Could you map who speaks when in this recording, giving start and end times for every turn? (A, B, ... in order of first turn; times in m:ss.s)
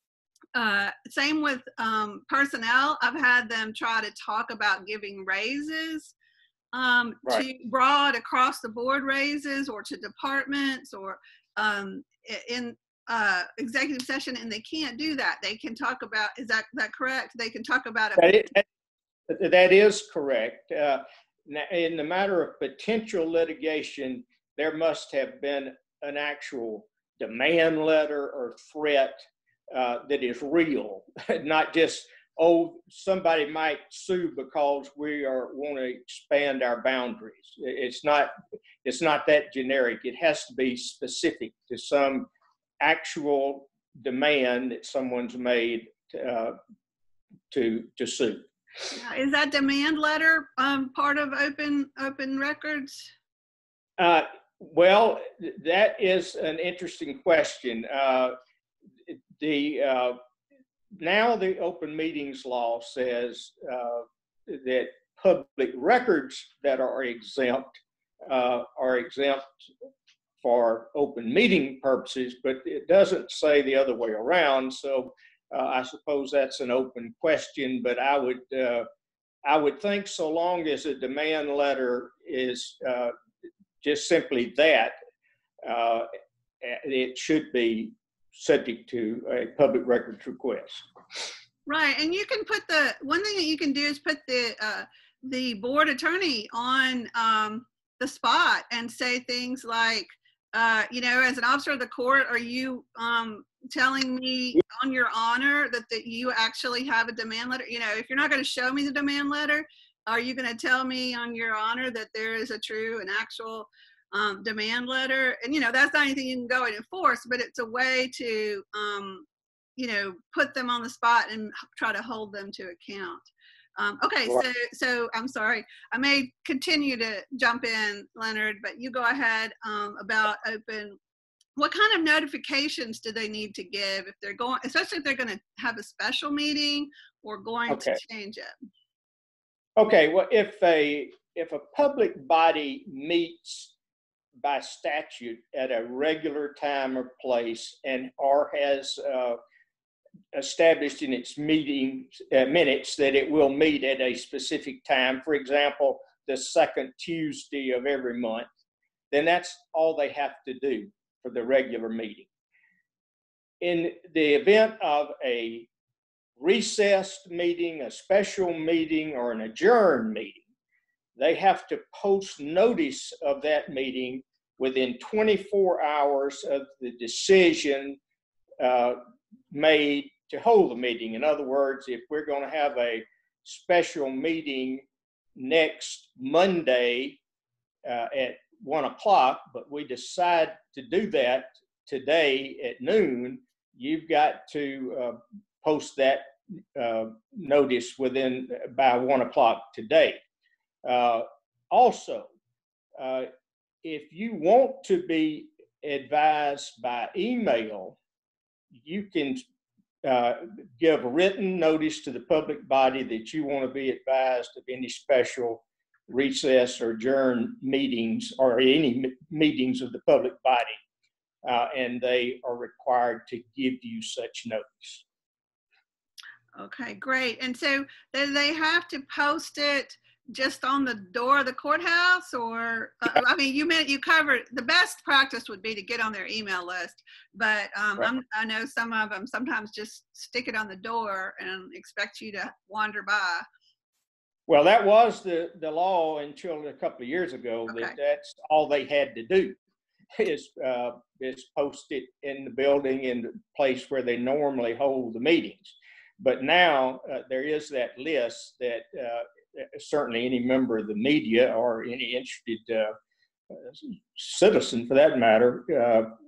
0:00.5-0:06.1 A
0:06.7-0:18.5 A
0:18.2-0:18.6 B
0:19.3-0:29.2 B
0:29.7-0:38.3 B
0:38.8-0:42.3 B
0:42.8-0:46.6 B
0:47.5-0:48.5 B
0:48.9-0:53.1 A
0:54.0-0:58.3 B
0:59.0-1:00.2 B
1:01.0-1:09.7 B
1:10.4-1:18.8 B
1:19.4-1:23.1 B
1:23.8-1:24.9 B
1:25.6-1:26.1 B
1:26.6-1:30.8 B
1:31.7-1:59.2 A
1:59.8-2:11.0 A
2:11.6-2:18.5 A
2:17.7-2:18.0 B
2:19.8-2:23.7 B
2:24.4-2:29.4 B
2:30.3-2:38.5 B
2:39.1-2:42.3 B
2:43.6-2:45.7 B
2:46.4-2:50.4 B
2:51.2-2:58.0 B
2:58.6-2:59.0 B
2:59.5-3:07.2 B
3:07.8-3:20.2 B
3:20.8-3:22.3 B
3:23.0-3:23.3 B
3:23.8-3:28.0 B
3:28.7-3:29.4 B
3:30.0-3:40.8 B
3:41.4-3:45.0 B
3:46.6-4:03.4 A
4:04.5-4:09.6 B
4:07.7-4:07.9 A
4:10.2-4:22.9 B
4:23.5-4:26.1 B